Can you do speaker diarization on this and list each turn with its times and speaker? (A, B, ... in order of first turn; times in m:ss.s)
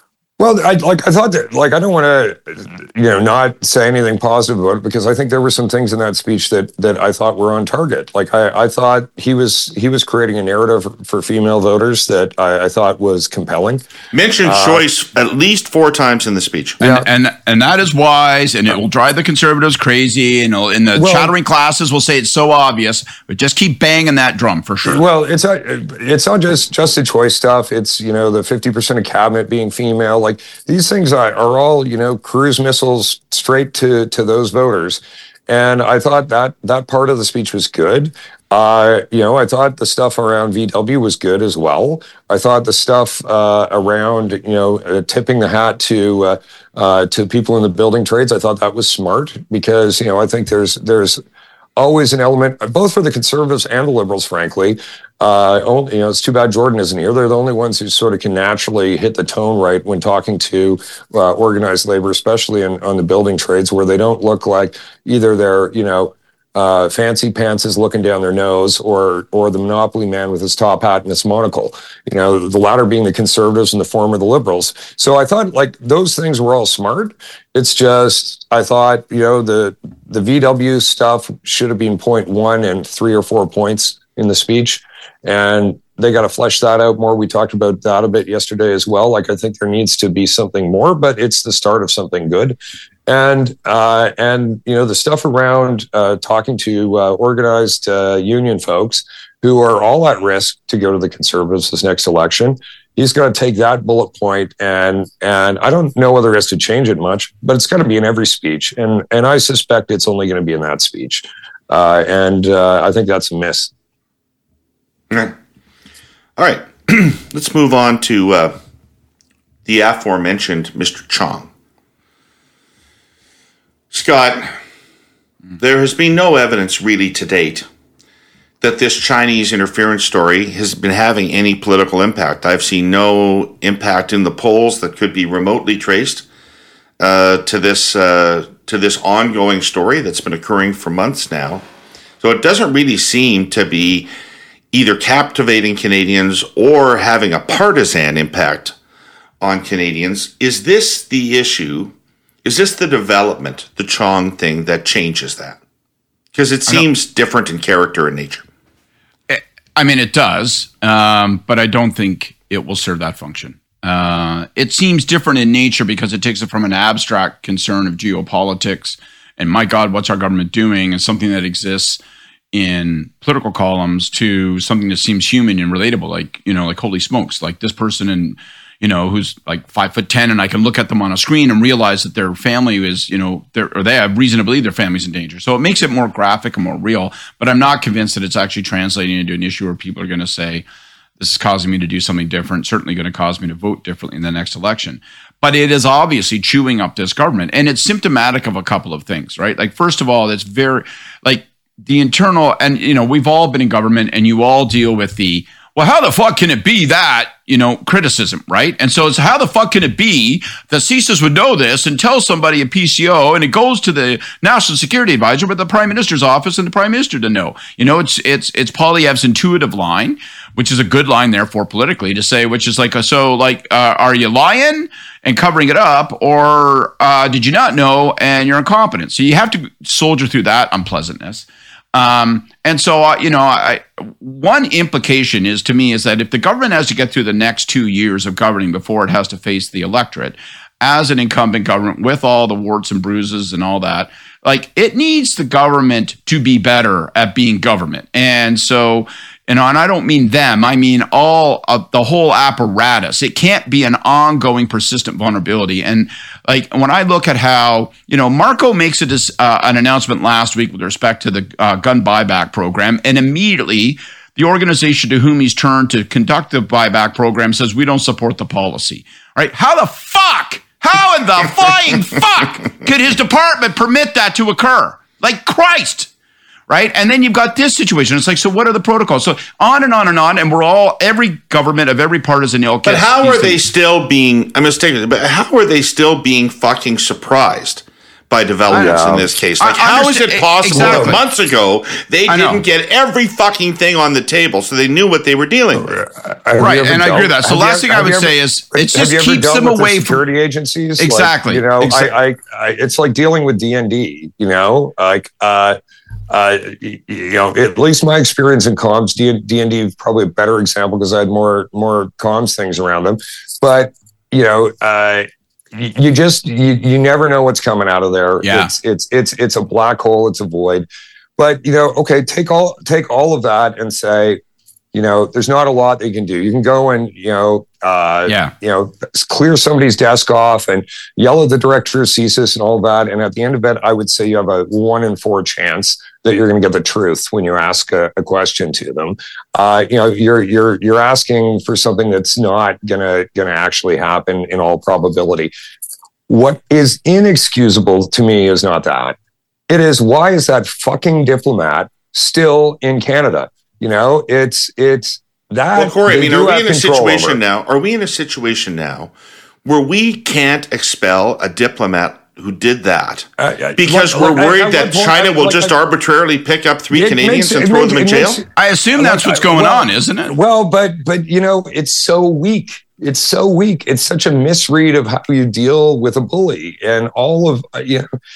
0:00.4-0:13.8 A
0:14.1-0:16.8 B
0:14.4-0:14.9 A
0:16.8-0:25.0 C
0:21.0-0:21.3 A
0:24.8-0:51.2 A
0:51.8-1:53.7 A
1:56.4-1:58.6 B
1:59.7-2:01.5 B
2:03.9-2:04.5 B
2:05.6-2:07.7 B
2:08.6-2:16.3 B
2:17.0-2:21.6 B
2:22.2-2:24.1 B
2:24.7-2:28.8 B
2:29.4-2:31.9 B
2:32.4-2:35.6 B
2:36.3-2:38.5 B
2:39.3-2:52.0 C
2:52.5-3:10.6 C
3:11.2-4:36.1 C
4:36.7-4:43.6 C
4:42.9-4:56.0 B
4:48.7-4:49.3 A
4:48.7-4:49.0 C
4:49.6-4:51.2 C
4:50.8-4:51.2 A
4:52.3-4:52.6 C
4:55.8-5:05.8 A
4:56.6-5:00.2 C
5:01.0-5:02.1 C
5:06.3-5:20.9 A
5:18.4-5:18.7 C
5:21.4-5:24.4 A
5:24.9-5:45.5 A
5:28.3-5:28.5 C
5:46.3-5:49.2 A
5:49.7-5:57.4 A
5:55.8-5:59.1 B
5:59.6-6:08.4 B
6:03.4-6:05.8 A
6:06.9-6:18.1 A
6:08.6-6:10.4 C